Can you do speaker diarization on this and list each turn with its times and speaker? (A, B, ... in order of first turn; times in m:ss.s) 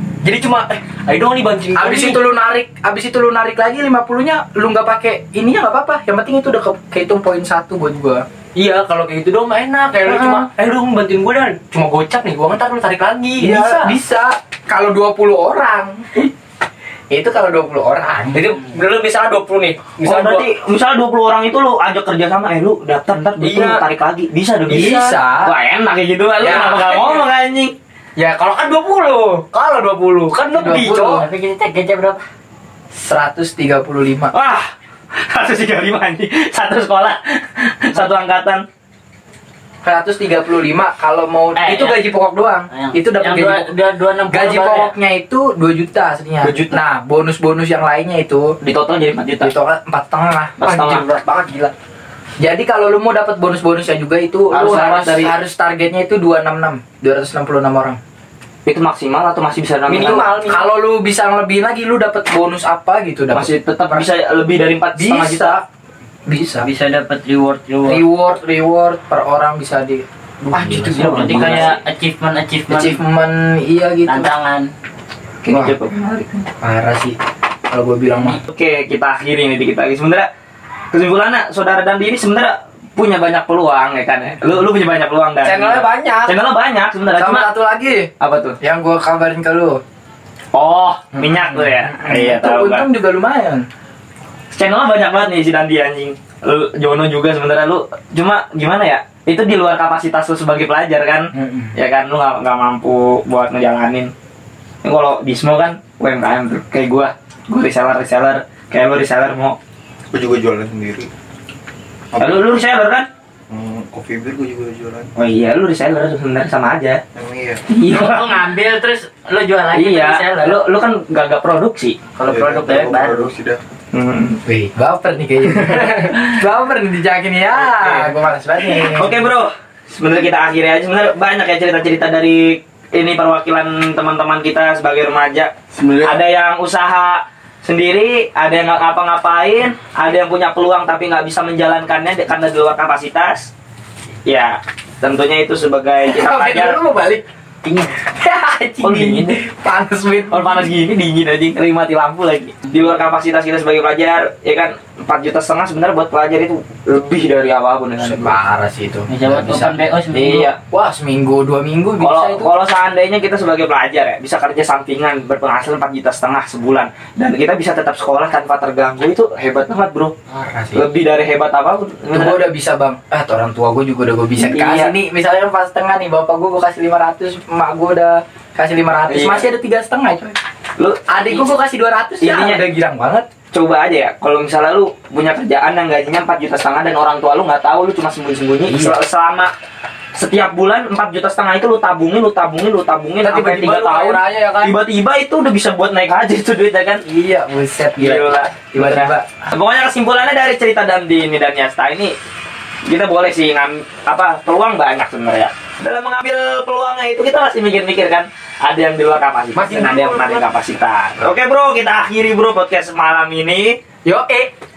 0:00.2-0:02.2 A
0:01.7-0:08.2 B
0:08.5-0:14.0 A
0:10.0-0:10.5 B
0:13.4-0:16.3 B
0:17.1-0:18.5 B
0:18.3-0:20.5 A
0:20.0-0:27.7 C
0:23.4-0:23.8 A
0:24.7-0:25.5 B
0:26.4-0:27.2 A
0:26.5-0:26.8 B
0:28.2-0:31.2 A
0:30.5-0:31.2 B
0:30.6-0:32.2 D
0:32.9-0:34.3 B
0:34.3-0:38.6 C
0:39.8-0:43.7 B
0:41.5-0:42.0 D
0:42.7-0:44.9 D
0:44.3-0:48.6 B
0:46.4-0:46.8 C
0:48.6-0:49.5 C
0:49.4-0:51.7 B
0:50.6-0:51.0 C
0:52.4-0:58.0 B
0:54.5-0:55.3 C
0:58.6-1:00.3 C
0:59.9-1:00.7 A
1:00.0-1:04.1 B
1:03.3-1:05.5 C
1:05.0-1:05.6 B
1:06.3-1:06.7 B
1:06.6-1:08.0 D
1:07.8-1:11.7 B
1:10.5-1:11.6 E
1:10.9-1:11.8 C
1:11.0-1:13.0 D
1:12.7-1:14.3 B
1:14.0-1:14.7 D
1:15.4-1:16.5 C
1:15.5-1:15.7 B
1:16.6-1:17.2 B
1:17.7-1:18.4 B
1:18.5-1:20.3 C
1:20.9-1:27.5 C
1:25.4-1:26.4 A
1:27.1-1:28.1 B
1:28.2-1:28.6 C
1:28.6-1:29.8 B
1:30.5-1:32.9 C
1:31.1-1:33.6 B
1:34.5-1:44.1 C
1:41.3-1:41.7 B
1:44.8-1:49.6 C
1:50.1-1:51.1 E
1:52.1-1:52.5 E
1:52.2-1:53.1 C
1:53.5-1:55.1 E
1:55.2-1:57.0 C
1:57.1-1:57.6 E
1:57.7-1:58.2 C
1:57.9-2:00.6 D
1:59.7-2:02.0 C
2:02.2-2:03.3 D
2:02.2-2:03.6 E
2:03.9-2:04.4 C
2:04.4-2:09.2 B
2:05.6-2:06.2 C
2:07.6-2:08.1 C
2:08.7-2:15.5 C
2:15.8-2:16.0 E
2:16.0-2:23.5 C
2:24.2-2:26.8 C
2:26.2-2:27.2 B
2:27.6-2:27.9 D
2:28.2-2:30.7 B
2:28.8-2:29.4 C
2:30.3-2:38.4 C
2:38.0-2:39.7 B
2:39.1-2:40.5 D
2:40.1-2:40.6 C
2:40.7-2:42.5 B
2:42.0-2:50.1 C
2:50.3-2:50.8 B
2:50.7-2:52.4 C
2:52.1-3:00.4 B
2:54.4-2:54.9 C
2:59.1-2:59.4 C
3:00.8-3:01.1 C
3:01.1-3:03.2 B
3:02.2-3:02.6 C
3:03.5-3:09.5 C
3:08.7-3:09.0 B
3:10.1-3:17.0 C
3:13.2-3:14.7 A
3:17.0-3:19.3 B
3:18.0-3:22.1 C
3:22.8-3:33.8 C
3:29.5-3:30.4 A
3:34.0-3:34.5 A